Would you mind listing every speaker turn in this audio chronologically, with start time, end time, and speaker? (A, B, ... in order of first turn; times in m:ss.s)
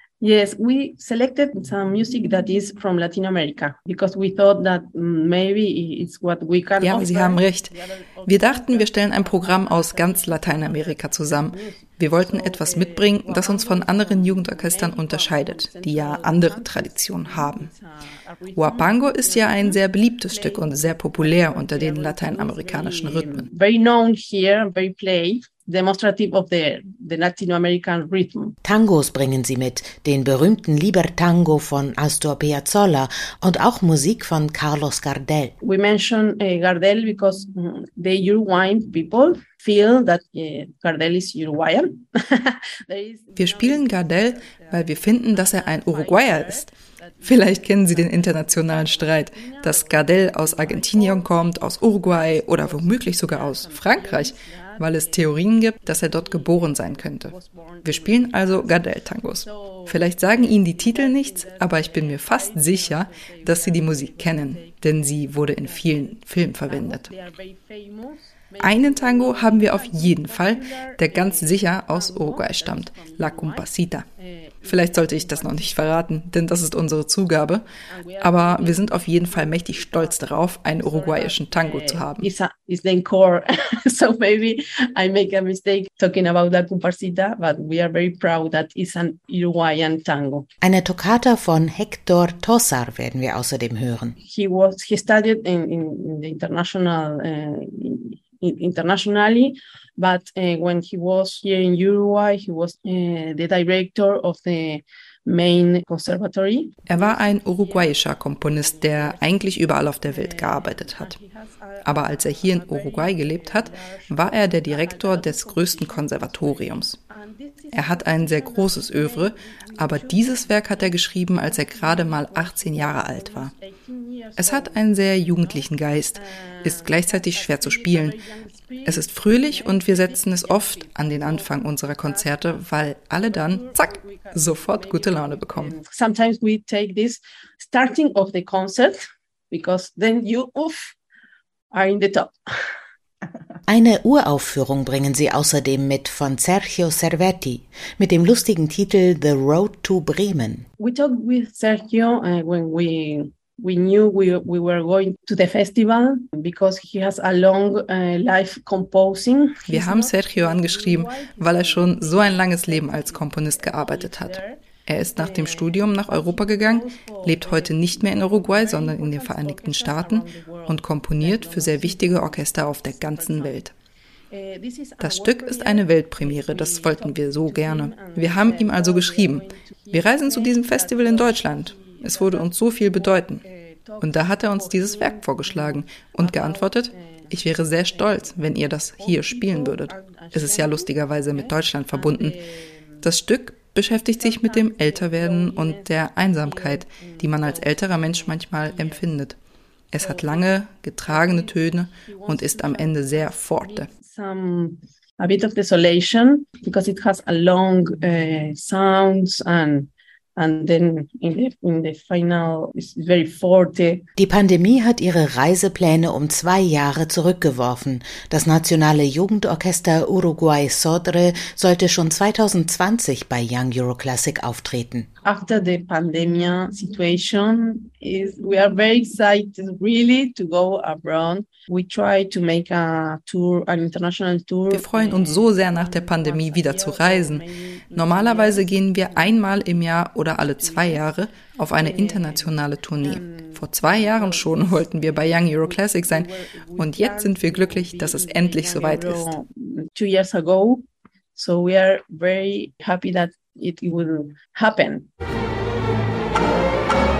0:00.2-0:28.6 A
0:06.8-0:07.7 B
0:08.2-0:17.7 B
0:18.6-0:23.5 B
0:28.6-0:35.5 C
0:35.6-1:15.9 A
0:43.4-0:46.7 B
0:47.2-0:57.3 B
0:57.8-1:07.1 B
1:08.6-1:14.0 B
1:14.6-1:17.6 B
1:17.9-1:30.5 A
1:18.2-1:22.3 B
1:30.6-1:34.2 C
1:34.2-2:21.0 A
1:46.8-1:51.2 B
1:51.8-1:57.0 B
1:57.7-2:03.5 B
2:04.4-2:08.2 B
2:08.8-2:15.7 B
2:21.7-2:22.3 A
2:23.7-2:30.6 C
2:30.8-2:53.6 A
2:39.6-2:53.7 B
2:54.3-3:07.4 A
2:55.0-3:03.4 B
3:04.0-3:12.4 B
3:07.9-3:13.1 A
3:13.0-3:19.4 B
3:14.0-3:19.2 A
3:19.9-3:23.9 B
3:20.0-3:34.0 A
3:34.2-3:45.1 C
3:45.2-3:59.8 A
3:54.7-3:57.4 B
3:57.9-4:09.3 B
4:00.5-4:01.1 A
4:01.8-4:10.8 A
4:11.3-4:15.1 A